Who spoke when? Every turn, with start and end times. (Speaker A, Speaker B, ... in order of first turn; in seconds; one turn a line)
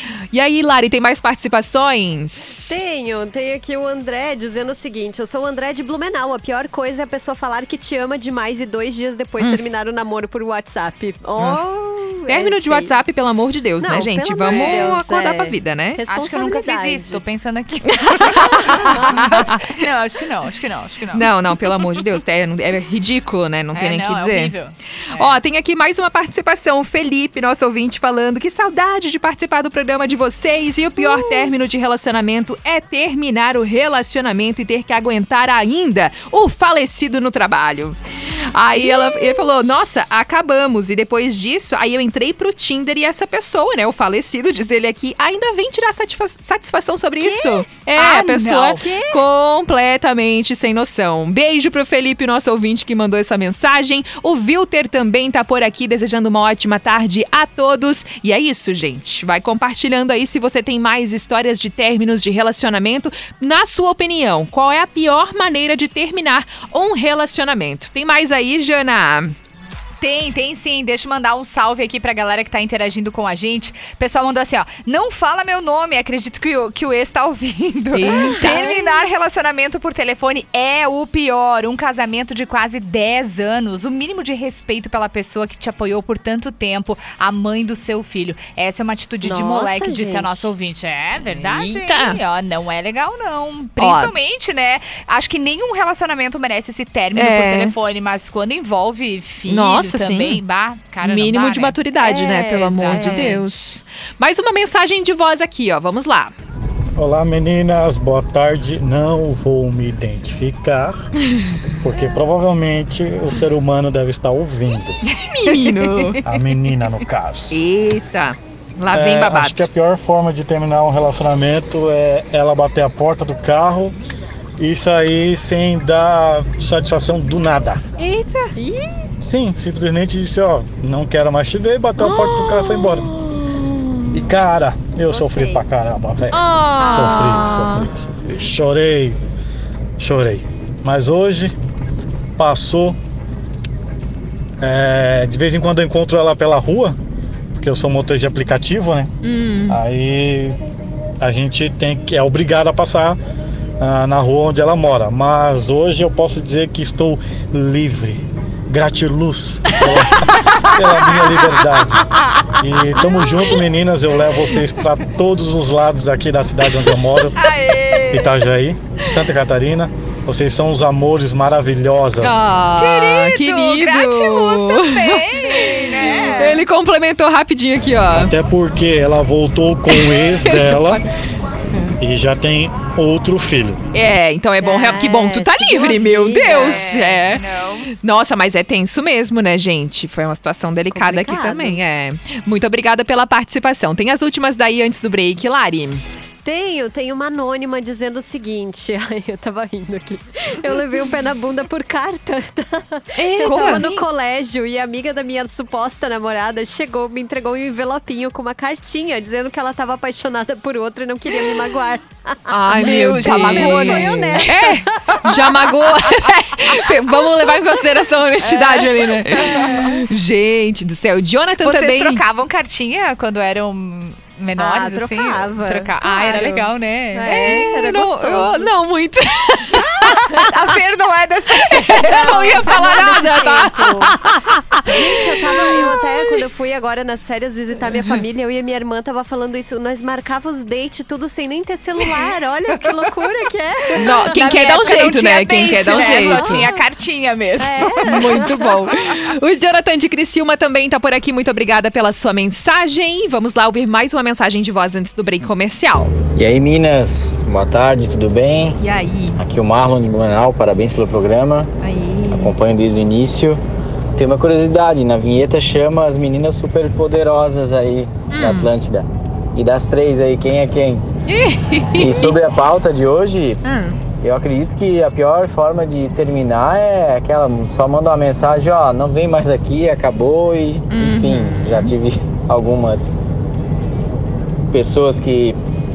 Speaker A: 0.3-2.8
Speaker B: 2.7-12.9
Speaker A: 12.3-16.0
Speaker B: 13.8-17.2
Speaker C: 14.5-14.9
Speaker C: 16.1-22.0
Speaker A: 18.0-19.6
Speaker B: 18.5-19.0
Speaker A: 21.1-24.5
Speaker C: 23.7-25.4
Speaker A: 25.1-38.0
Speaker A: 38.5-69.3
Speaker B: 38.8-39.5
Speaker B: 47.2-47.6
Speaker C: 47.9-48.9
Speaker B: 48.8-49.2
Speaker C: 70.0-103.4
Speaker A: 77.9-78.7
Speaker B: 78.0-79.0
Speaker B: 89.2-90.5
Speaker A: 91.3-92.2
Speaker A: 93.8-94.1
Speaker A: 97.1-97.7
Speaker A: 99.5-100.4
Speaker A: 101.0-106.3
Speaker B: 102.0-103.3
Speaker D: 107.0-111.0
Speaker D: 111.8-115.0
Speaker C: 115.0-116.3
Speaker A: 115.5-116.2
Speaker D: 116.2-117.6
Speaker A: 117.5-119.7
Speaker D: 118.9-123.9
Speaker D: 124.6-127.8
Speaker A: 128.0-128.5
Speaker B: 128.6-129.1
Speaker D: 129.2-133.1
Speaker A: 132.0-134.3
Speaker D: 134.1-139.2
Speaker A: 136.3-137.9
Speaker C: 136.8-137.3
Speaker D: 140.0-141.5
Speaker D: 142.4-143.0
Speaker D: 144.6-146.9
Speaker D: 147.5-149.1
Speaker A: 149.2-149.8
Speaker D: 149.7-150.6
Speaker D: 151.2-153.2
Speaker D: 153.8-162.0
Speaker D: 162.6-167.4
Speaker C: 163.1-163.4
Speaker C: 167.3-168.4
Speaker D: 168.1-172.6
Speaker A: 172.2-175.2
Speaker C: 172.7-176.6
Speaker B: 175.6-176.5
Speaker A: 176.3-178.3
Speaker D: 178.3-181.0
Speaker A: 179.9-181.0
Speaker D: 182.0-183.8
Speaker A: 183.9-187.4
Speaker B: 184.6-186.9
Speaker C: 186.5-187.9
Speaker A: 187.9-196.0
Speaker B: 190.9-191.8
Speaker B: 196.4-215.0
Speaker A: 203.2-203.9
Speaker C: 203.4-204.0
Speaker A: 212.5-222.2
Speaker C: 212.8-214.5
Speaker C: 218.4-219.7
Speaker B: 219.5-219.9
Speaker C: 221.6-227.6
Speaker B: 224.6-228.7
Speaker A: 227.2-230.2
Speaker C: 229.8-233.5
Speaker A: 231.7-235.2
Speaker B: 232.0-234.2
Speaker B: 234.8-244.7
Speaker C: 242.8-243.1
Speaker A: 243.9-246.7
Speaker C: 244.3-248.1
Speaker B: 246.0-246.8
Speaker B: 247.6-248.7
Speaker A: 248.0-256.1
Speaker E: 256.3-258.8
Speaker A: 258.8-259.4
Speaker E: 259.4-261.7
Speaker A: 261.8-262.5
Speaker E: 262.3-263.6
Speaker E: 264.2-271.0
Speaker A: 268.3-268.7
Speaker A: 271.3-272.4
Speaker E: 271.9-273.6
Speaker A: 273.6-274.0
Speaker E: 274.2-283.1
Speaker A: 280.9-281.9
Speaker E: 284.7-285.6